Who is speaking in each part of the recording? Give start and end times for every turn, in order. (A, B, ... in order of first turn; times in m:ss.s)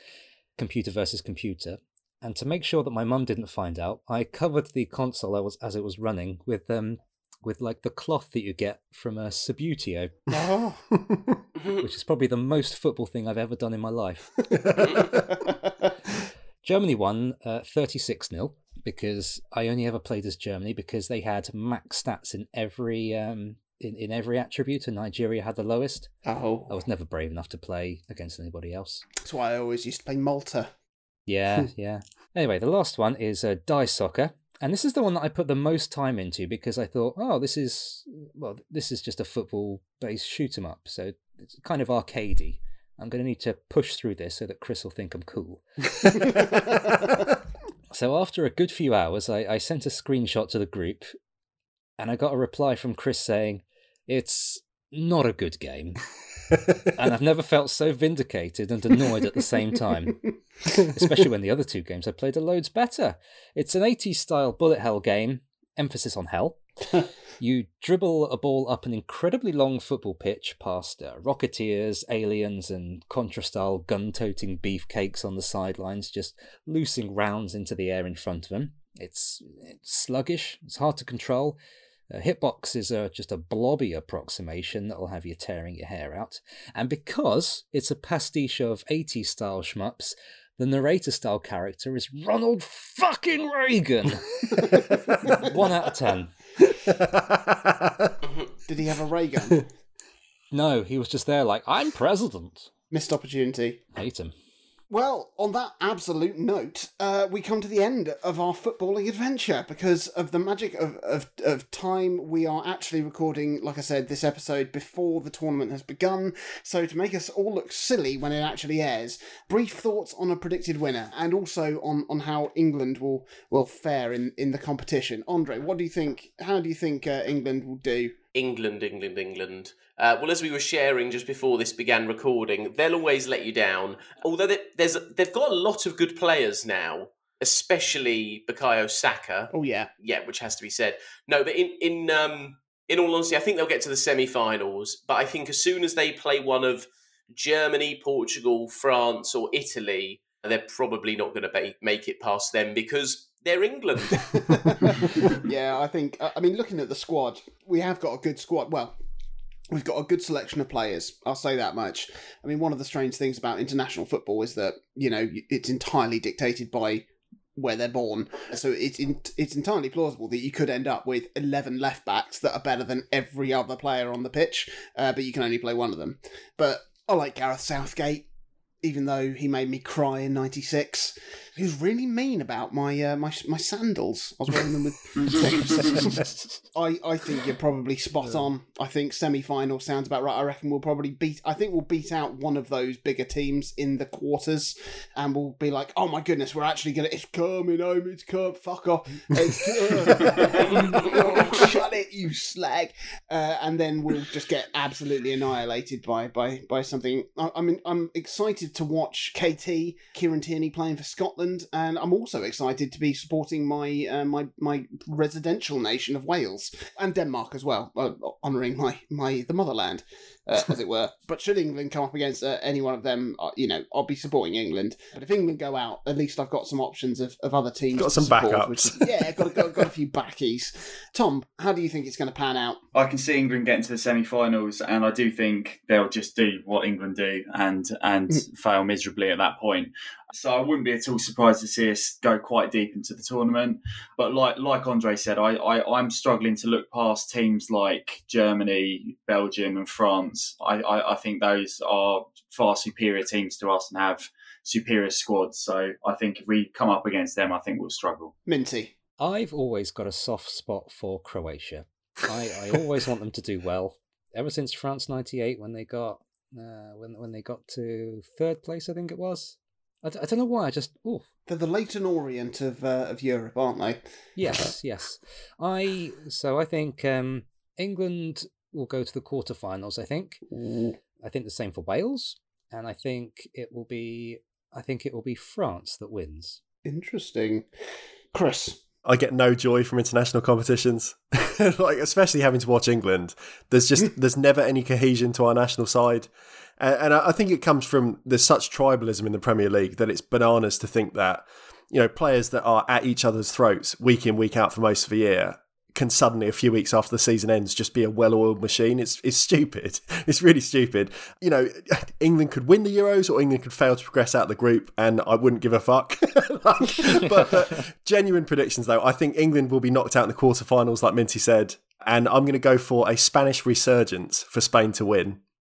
0:00.6-0:10.2 A
0:10.3-0:10.8 B
0:11.0-0:11.3 C
0:11.8-0:14.5 A
0:14.8-0:15.1 D
0:16.6-0:26.1 A
0:26.3-0:26.8 B
0:26.7-0:29.0 A
0:29.2-0:30.7 B
0:31.3-0:47.1 A
0:47.9-0:51.1 A
0:52.0-0:56.0 A
0:56.8-1:06.6 A
1:07.4-1:21.6 A
1:22.1-1:36.3 A
1:34.7-1:35.4 B
1:36.8-1:38.1 C
1:38.6-1:39.6 B
1:40.5-1:42.7 A
1:42.9-1:43.8 B
1:44.0-1:44.3 A
1:44.9-2:08.1 B
2:08.3-2:35.4 D
2:19.5-2:19.9 B
2:34.3-2:39.0 B
2:39.7-2:47.0 B
2:47.6-2:58.3 B
2:58.8-3:06.2 B
3:05.3-3:05.9 E
3:06.7-3:52.8 B
3:48.0-3:49.8 C
3:52.9-4:18.3 E
4:18.5-4:18.9 B
4:19.2-4:31.3 A
4:31.5-4:34.0 B
4:34.4-4:40.4 A
4:40.5-4:41.0 B
4:41.2-4:46.6 A
4:46.8-4:47.6 B
4:48.3-4:48.8 B
4:49.0-5:25.4 C